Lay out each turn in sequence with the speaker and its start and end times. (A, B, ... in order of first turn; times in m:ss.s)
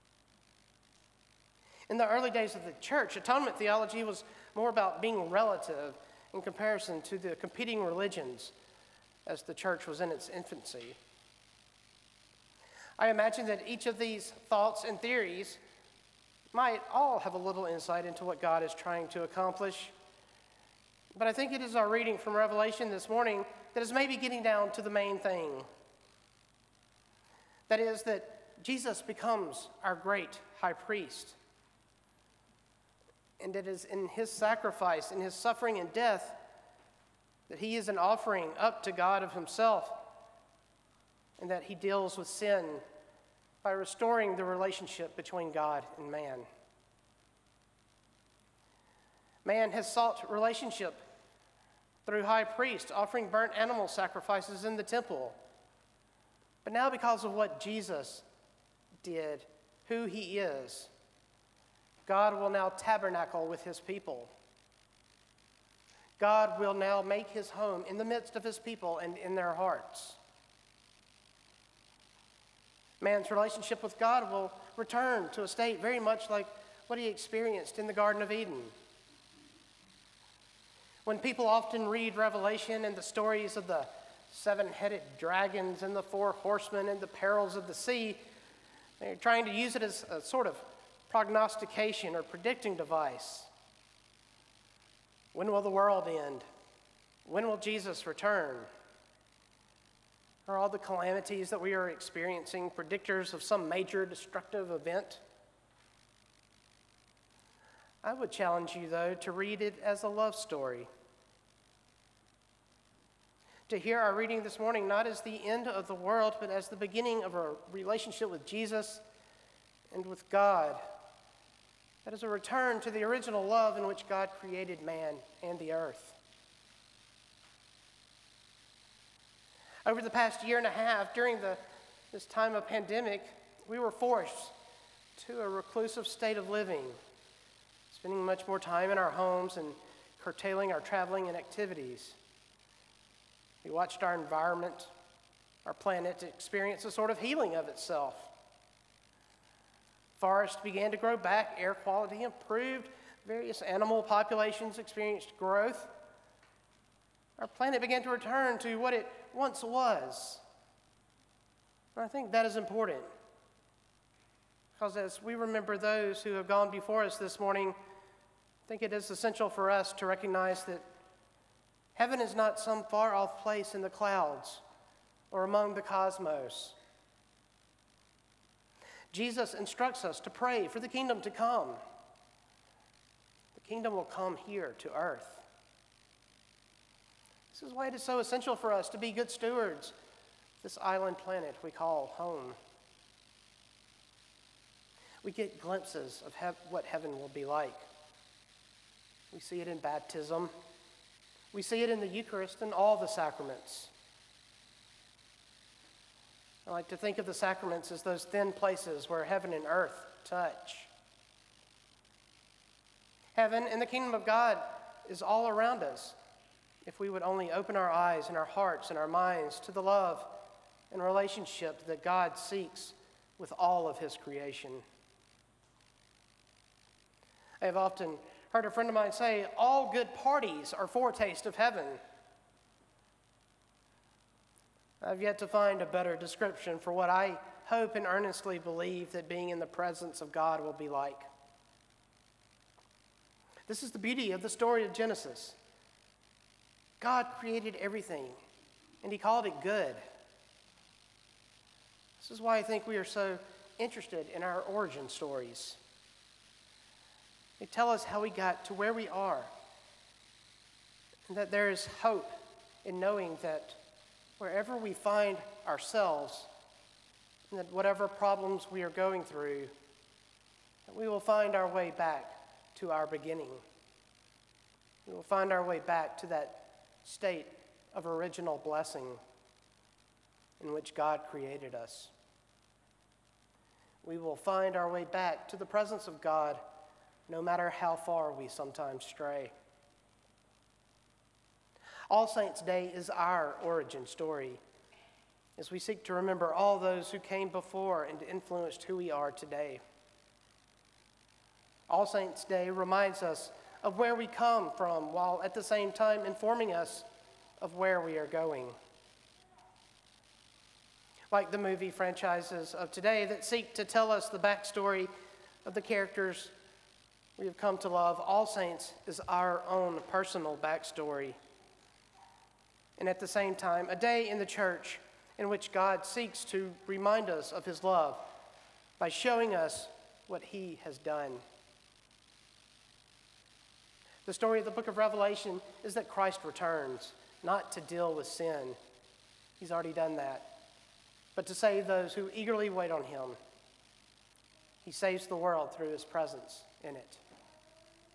0:01.9-0:08.5 A
0:09.3-0:11.0 A
0:13.0-0:15.6 A
0:16.5-0:19.9 A
0:21.2-0:25.7 A
0:27.7-0:31.4 A
0:33.4-0:36.4 A
0:37.5-0:40.0 A
0:41.4-0:42.8 A
0:43.6-0:46.5 A
0:49.4-0:51.0 A
0:52.1-0:55.4 A
0:56.6-0:58.2 A
0:59.0-1:00.9 A
1:02.1-1:04.3 A
1:06.2-1:10.2 A
1:13.0-1:18.7 A
1:21.0-1:28.2 A
1:29.0-1:33.5 A
1:35.3-1:36.4 A
1:37.2-1:38.7 A
1:40.5-1:45.2 A
1:48.0-1:50.9 A
1:53.7-1:59.0 A
1:59.9-2:00.8 A
2:02.0-2:06.2 A
2:09.8-2:14.5 A
2:15.2-2:17.0 A
2:17.9-2:22.2 A
2:23.6-2:24.9 A
2:25.6-2:28.3 A
2:30.2-2:35.9 A
2:37.4-2:40.4 A
2:42.0-2:43.1 A
2:44.8-2:47.8 A
2:48.7-2:50.8 A
2:52.0-2:54.6 A
2:55.3-2:56.8 A
2:59.1-3:01.8 A
3:03.5-3:05.4 A
3:07.5-3:09.9 A
3:10.6-3:12.6 A
3:15.2-3:17.8 A
3:19.3-3:20.5 A
3:21.5-3:23.9 A
3:26.7-3:30.9 A
3:33.4-3:36.2 A
3:36.8-3:40.3 A
3:40.9-3:44.8 A
3:47.6-3:52.0 A
3:55.0-4:01.3 A
4:03.7-4:05.6 A
4:07.0-4:08.4 A
4:09.0-4:10.0 A
4:12.2-4:15.8 A
4:17.6-4:19.5 A
4:21.3-4:22.3 A
4:22.8-4:23.8 A
4:24.4-4:26.5 A
4:27.5-4:29.7 A
4:30.9-4:33.6 A
4:35.1-4:39.2 A
4:40.6-4:42.1 A
4:44.0-4:46.6 A
4:47.3-4:49.5 A
4:52.1-4:54.6 A
4:55.6-4:59.8 A
5:01.9-5:07.1 A
5:07.6-5:08.8 A
5:11.3-5:15.1 A
5:15.6-5:16.5 A
5:17.4-5:21.4 A
5:23.0-5:28.3 A
5:29.0-5:31.4 A
5:34.2-5:38.8 A
5:39.6-5:40.5 A
5:41.4-5:43.4 A
5:44.8-5:47.2 A